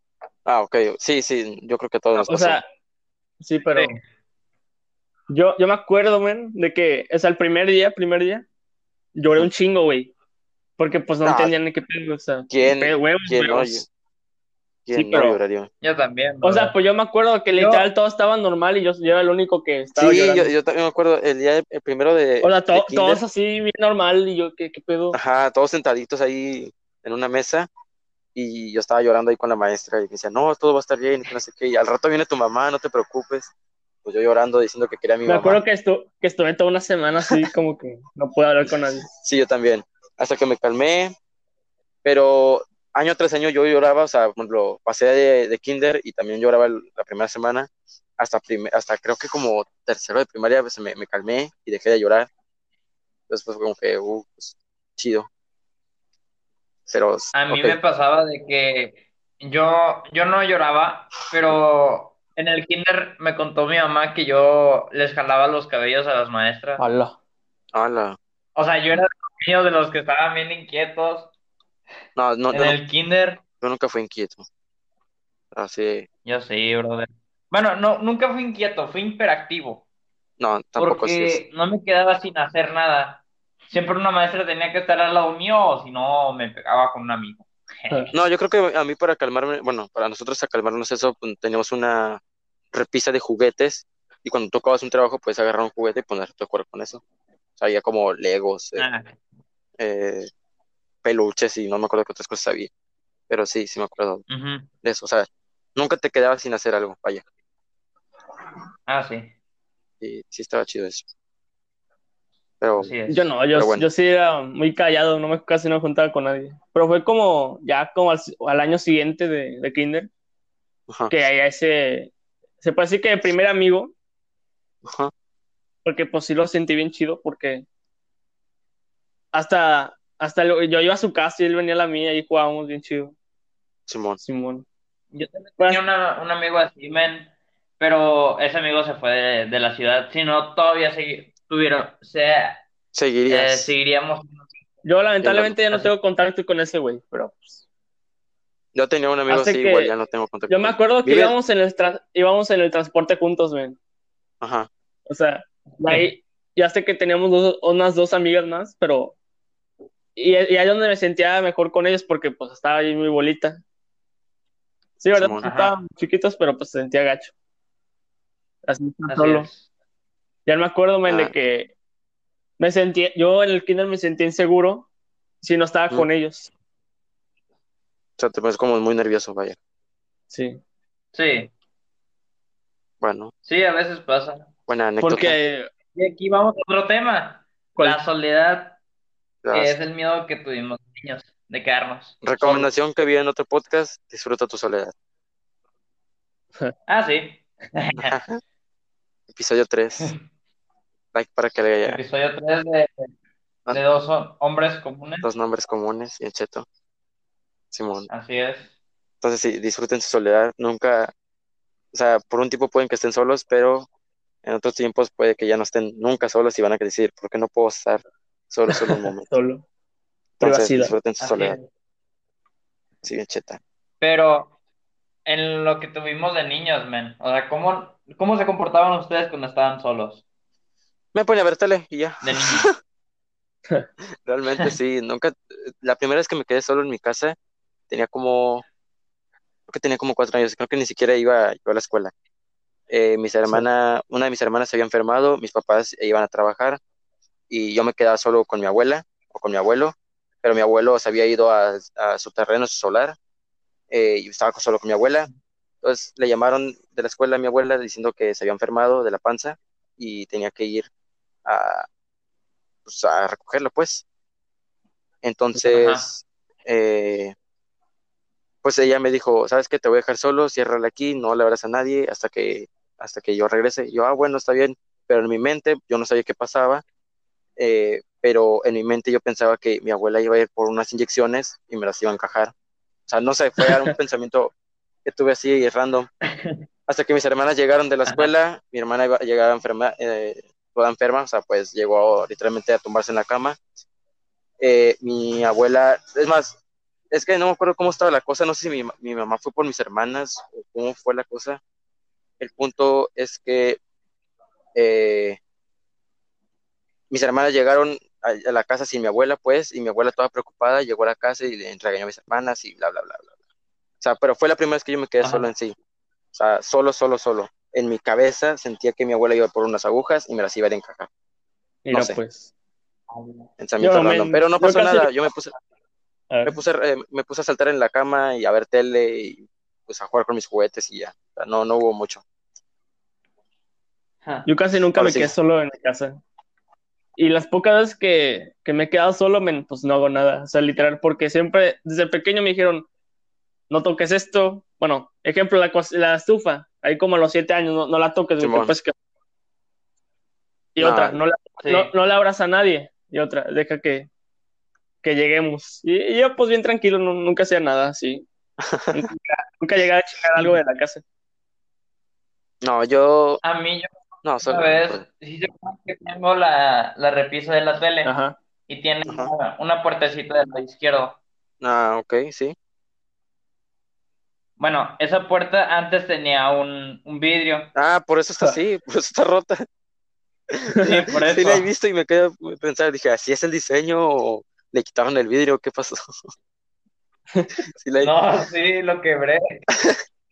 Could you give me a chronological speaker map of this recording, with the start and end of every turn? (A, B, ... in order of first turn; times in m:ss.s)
0:00.5-0:02.6 A
0:02.2-0:02.6 B
0:03.4-0:03.9 B
0:03.7-0:04.0 C
0:05.3-0:08.5 B
0:09.2-0:10.1 B
0:10.8-0:13.8 B
0:11.2-0:11.5 A
0:12.5-0:13.9 A
0:14.9-0:15.7 A
0:14.9-0:15.4 B
0:15.8-0:16.8 C
0:16.4-0:20.5 B
0:17.5-0:17.9 C
0:20.0-0:23.2 A
0:22.4-0:25.2 B
0:25.1-0:27.7 A
0:28.4-0:33.5 A
0:34.0-0:35.6 A
0:35.2-0:39.1 B
0:39.1-0:41.1 A
0:42.0-0:52.3 A
0:53.3-0:55.3 A
0:56.9-0:57.8 A
0:57.3-1:06.8 C
1:06.8-1:07.2 B
1:07.7-1:08.2 A
1:08.6-1:11.3 C
1:12.2-1:12.8 A
1:12.5-1:13.4 C
1:13.6-1:14.4 A
1:15.5-1:16.1 A
1:16.2-1:19.8 C
1:20.4-1:21.4 A
1:20.8-1:28.1 C
1:28.1-1:32.2 A
1:32.7-1:37.0 A
1:37.6-1:38.8 A
1:38.8-1:39.2 C
1:39.8-1:40.3 A
1:41.0-1:42.7 A
1:43.3-1:44.2 A
1:44.3-1:44.7 C
1:44.8-1:47.2 A
1:48.9-1:49.3 C
1:50.0-1:51.1 A
1:52.6-1:52.9 A
1:52.8-1:53.3 C
1:53.1-2:00.1 B
1:53.5-1:53.9 A
2:01.1-2:03.9 B
2:04.8-2:05.1 A
2:05.8-2:07.6 B
2:09.3-2:13.1 B
2:13.9-2:14.2 A
2:14.2-2:14.6 B
2:15.1-2:22.6 C
2:22.9-2:23.7 A
2:23.3-2:24.5 C
2:24.8-2:27.6 B
2:25.2-2:25.6 A
2:28.7-2:31.4 A
2:29.3-2:29.9 B
2:30.5-2:33.8 B
2:34.4-2:34.7 A
2:35.1-2:39.2 B
2:40.2-2:43.6 B
2:45.0-2:47.3 B
2:45.1-2:45.4 A
2:45.4-2:45.7 C
2:48.7-2:49.5 B
2:49.1-2:49.6 C
2:50.5-2:51.7 B
2:51.1-2:51.3 A
2:52.6-2:54.9 B
2:55.4-2:56.5 B
2:58.2-2:59.6 A
3:00.3-3:00.6 B
3:01.1-3:01.5 C
3:03.0-3:03.3 A
3:03.4-3:04.5 C
3:04.7-3:05.4 A
3:05.0-3:05.7 B
3:06.0-3:08.8 C
3:09.4-3:09.8 A
3:09.5-3:12.7 C
3:12.2-3:14.9 A
3:16.9-3:18.2 C
3:18.0-3:18.4 A
3:19.3-3:20.1 A
3:21.1-3:22.0 A
3:21.8-3:23.1 C
3:23.7-3:25.3 C
3:25.2-3:26.6 A
3:27.7-3:28.1 A
3:28.1-3:28.7 C
3:29.2-3:31.1 A
3:31.9-3:33.9 A
3:34.4-3:39.3 A
3:38.7-3:39.6 B
3:40.4-3:41.6 A
3:40.4-3:40.9 B
3:41.2-3:41.7 C
3:43.0-3:43.6 A
3:44.0-3:44.5 C
3:45.2-3:50.2 C
3:51.1-3:52.8 A
3:52.2-3:52.7 C
3:54.2-3:57.4 A
3:57.9-3:58.6 A
3:59.7-4:02.1 A
4:02.9-4:06.8 A
4:07.5-4:13.2 A
4:13.9-4:15.3 A
4:15.8-4:20.9 A
4:21.4-4:21.9 A
4:22.9-4:24.0 A
4:25.2-4:27.4 A
4:25.6-4:26.0 C
4:28.6-4:36.8 A
4:37.6-4:42.5 A
4:43.1-4:44.5 A
4:45.0-4:46.1 A
4:46.2-4:46.6 C
4:46.9-4:53.6 A
4:54.6-4:56.6 A
4:57.1-5:01.6 A
5:02.4-5:03.8 A
5:04.8-5:05.4 A
5:07.1-5:13.3 A
5:14.0-5:15.8 A
5:15.2-5:15.5 C
5:16.3-5:21.1 A
5:21.8-5:22.5 B
5:21.9-5:22.2 A
5:23.1-5:23.5 C
5:23.6-5:25.5 A
5:23.8-5:25.1 B
5:26.3-5:26.6 B
5:26.4-5:32.2 A
5:34.5-5:36.2 B
5:35.0-5:35.3 A
5:37.2-5:42.9 B
5:43.7-5:48.9 B
5:48.4-5:48.8 A
5:50.8-5:54.1 B
5:50.8-5:51.2 A
5:51.6-5:51.9 C
5:55.0-5:58.2 B
5:58.6-5:59.0 A
5:58.9-6:01.0 B
6:02.6-6:03.4 A
6:03.4-6:03.9 C
6:04.2-6:05.0 A
6:04.4-6:08.1 C
6:08.0-6:08.4 B
6:08.7-6:11.2 C
6:09.0-6:09.3 A
6:11.6-6:12.5 A
6:14.6-6:17.7 C
6:17.8-6:19.6 A
6:20.5-6:26.1 A
6:20.8-6:21.7 C
6:27.7-6:28.1 A
6:28.0-6:29.6 C